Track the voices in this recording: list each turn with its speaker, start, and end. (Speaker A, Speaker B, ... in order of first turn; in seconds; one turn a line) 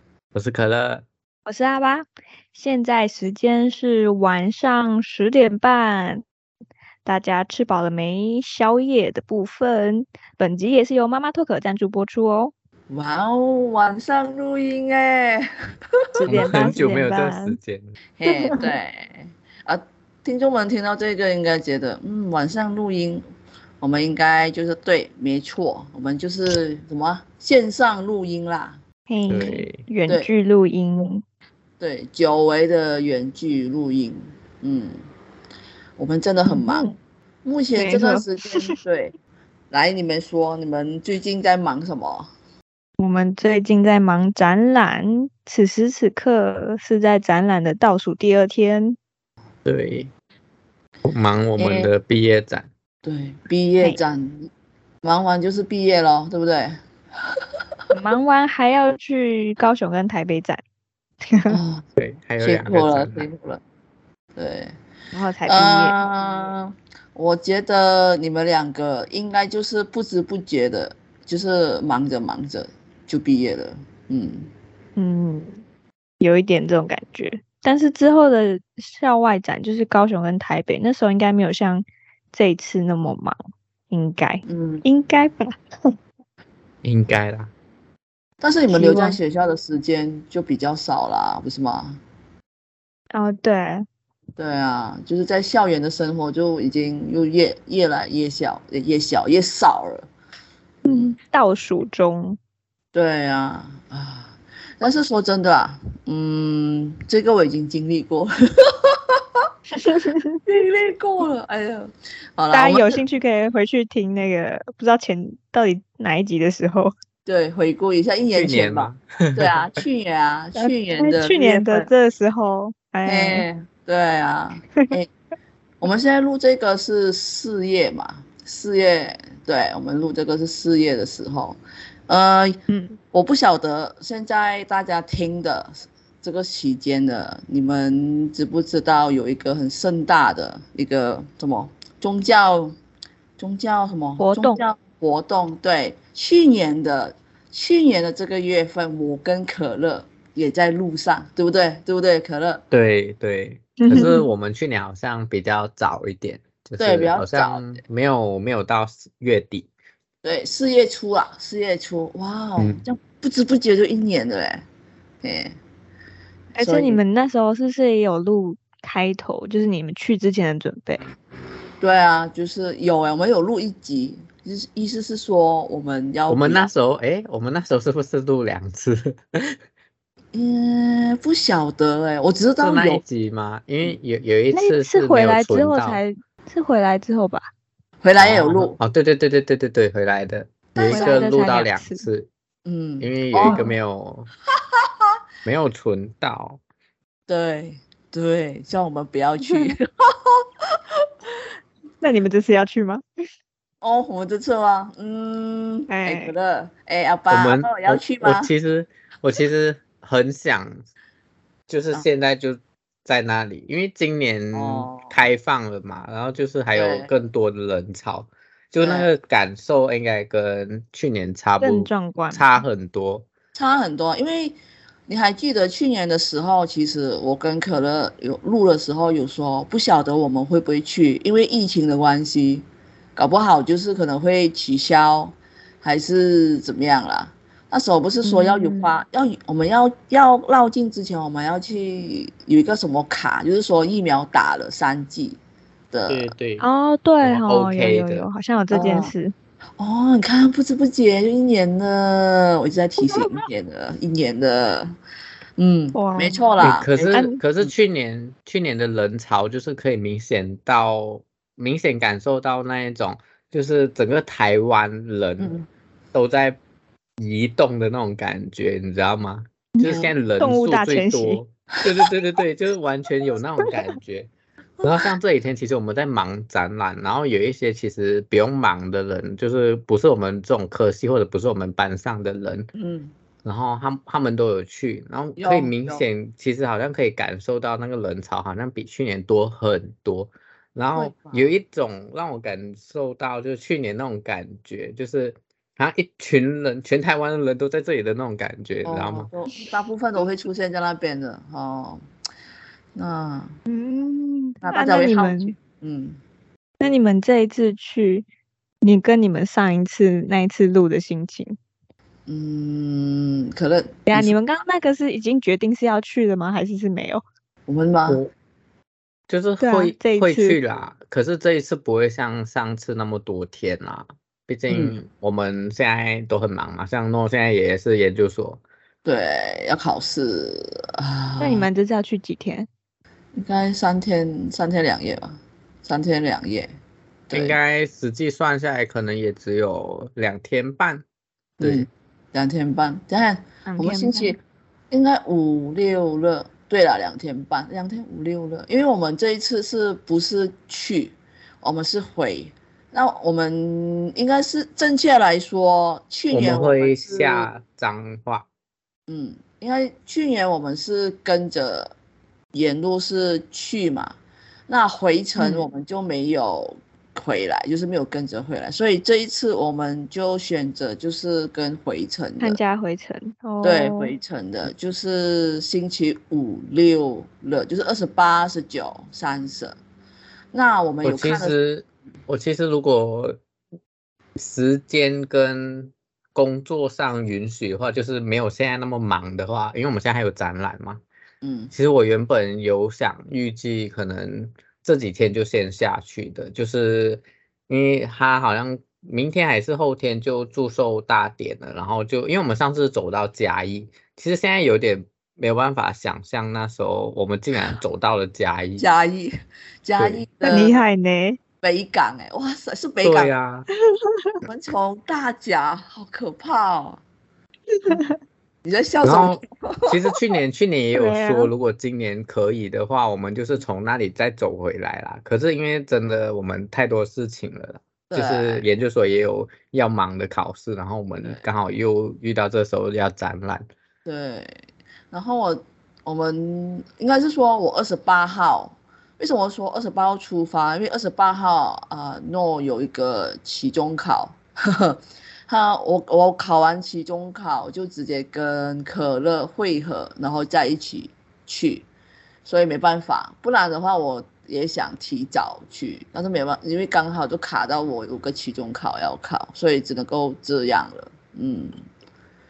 Speaker A: 0.3-1.1
Speaker B: 1.5-6.2
Speaker B: 7.0-12.5
Speaker C: 12.9-15.5
Speaker C: 16.2-16.8
Speaker B: 16.2-17.6
Speaker A: 16.3-17.9
Speaker C: 18.2-23.2
Speaker B: 18.3-18.7
Speaker C: 23.8-28.8
Speaker B: 29.1-31.2
Speaker A: 29.3-29.8
Speaker C: 31.8-35.0
Speaker C: 36.0-39.1
Speaker B: 36.5-37.0
Speaker B: 37.8-38.7
Speaker C: 39.7-42.3
Speaker B: 43.0-49.0
Speaker A: 49.6-50.1
Speaker A: 51.0-52.7
Speaker C: 51.6-51.9
Speaker C: 53.0-54.5
Speaker C: 55.0-56.8
Speaker B: 57.9-60.6
Speaker B: 61.2-61.6
Speaker C: 61.5-61.9
Speaker A: 62.0-63.3
Speaker C: 62.4-63.6
Speaker C: 64.4-64.7
Speaker B: 65.1-66.0
Speaker C: 65.5-74.5
Speaker B: 75.0-75.6
Speaker B: 76.2-83.4
Speaker B: 83.9-86.0
Speaker C: 84.5-84.9
Speaker A: 86.8-87.5
Speaker C: 88.4-92.0
Speaker B: 88.7-89.2
Speaker B: 93.1-93.9
Speaker C: 94.4-100.1
Speaker C: 100.9-101.1
Speaker B: 100.9-102.4
Speaker C: 102.9-109.0
Speaker B: 109.7-110.4
Speaker C: 110.5-113.0
Speaker B: 112.5-116.9
Speaker C: 117.3-121.9
Speaker A: 118.4-119.5
Speaker B: 120.5-123.5
Speaker C: 123.0-125.1
Speaker C: 125.8-132.6
Speaker B: 132.7-133.0
Speaker C: 133.1-142.8
Speaker C: 143.4-152.6
Speaker B: 144.2-144.6
Speaker A: 152.7-159.7
Speaker B: 153.8-154.3
Speaker C: 156.8-157.8
Speaker C: 160.2-164.6
Speaker C: 165.2-165.6
Speaker B: 166.6-171.0
Speaker C: 166.6-167.0
Speaker C: 171.8-176.7
Speaker A: 176.3-179.6
Speaker C: 180.3-183.0
Speaker A: 182.6-186.0
Speaker B: 184.5-187.5
Speaker C: 188.0-188.8
Speaker A: 188.2-192.3
Speaker C: 190.8-191.3
Speaker B: 190.9-192.0
Speaker C: 192.7-193.6
Speaker A: 193.0-194.3
Speaker B: 193.4-193.7
Speaker C: 194.8-195.1
Speaker A: 195.4-196.6
Speaker C: 197.3-201.1
Speaker B: 199.4-199.8
Speaker B: 202.0-203.0
Speaker C: 203.8-208.5
Speaker B: 205.9-206.3
Speaker A: 207.3-210.9
Speaker A: 211.7-223.3
Speaker C: 214.5-215.2
Speaker C: 216.7-217.1
Speaker C: 218.8-219.1
Speaker B: 221.6-222.6
Speaker C: 223.6-245.4
Speaker B: 238.2-238.9
Speaker C: 245.9-246.3
Speaker A: 246.1-246.7
Speaker B: 246.6-249.3
Speaker A: 247.2-248.3
Speaker C: 248.7-249.1
Speaker C: 249.8-254.9
Speaker C: 255.6-257.7
Speaker B: 255.9-256.5
Speaker A: 256.6-265.6
Speaker B: 257.1-257.4
Speaker C: 265.4-265.7
Speaker A: 266.1-266.6
Speaker A: 267.2-274.3
Speaker B: 269.8-271.4
Speaker C: 269.9-270.1
Speaker A: 274.8-282.7
Speaker C: 282.7-283.1
Speaker A: 283.4-299.3
Speaker C: 285.4-286.0
Speaker C: 291.0-291.6
Speaker C: 298.9-302.0
Speaker C: 302.9-303.5
Speaker B: 303.7-305.5
Speaker C: 304.6-306.2
Speaker B: 306.8-308.3
Speaker B: 308.8-311.6
Speaker C: 312.3-314.3
Speaker B: 314.1-317.2
Speaker C: 317.7-318.2
Speaker A: 319.3-328.6
Speaker B: 319.6-320.6
Speaker C: 324.7-325.0
Speaker C: 329.1-331.7
Speaker B: 331.4-332.7
Speaker C: 333.4-336.7
Speaker C: 337.3-337.6
Speaker A: 337.3-341.1
Speaker C: 341.6-344.4
Speaker A: 341.6-341.9
Speaker B: 343.7-344.4
Speaker C: 344.9-357.5
Speaker A: 356.3-358.5
Speaker C: 359.1-361.9
Speaker C: 362.5-364.1
Speaker C: 364.7-372.6
Speaker B: 365.4-365.7
Speaker B: 372.4-374.2
Speaker C: 373.6-379.8
Speaker C: 380.5-381.6
Speaker A: 381.0-383.4
Speaker A: 384.4-391.0
Speaker C: 391.4-391.7
Speaker A: 391.7-408.9
Speaker C: 408.8-409.3
Speaker C: 409.8-410.8
Speaker A: 410.0-410.2
Speaker B: 410.4-411.4
Speaker C: 411.6-413.3
Speaker A: 413.0-413.7
Speaker B: 414.0-414.3
Speaker C: 414.4-417.0
Speaker B: 417.7-418.2
Speaker C: 418.6-419.9
Speaker A: 419.0-433.7
Speaker B: 420.9-421.5
Speaker C: 428.1-428.7
Speaker C: 434.1-451.9
Speaker C: 452.4-461.8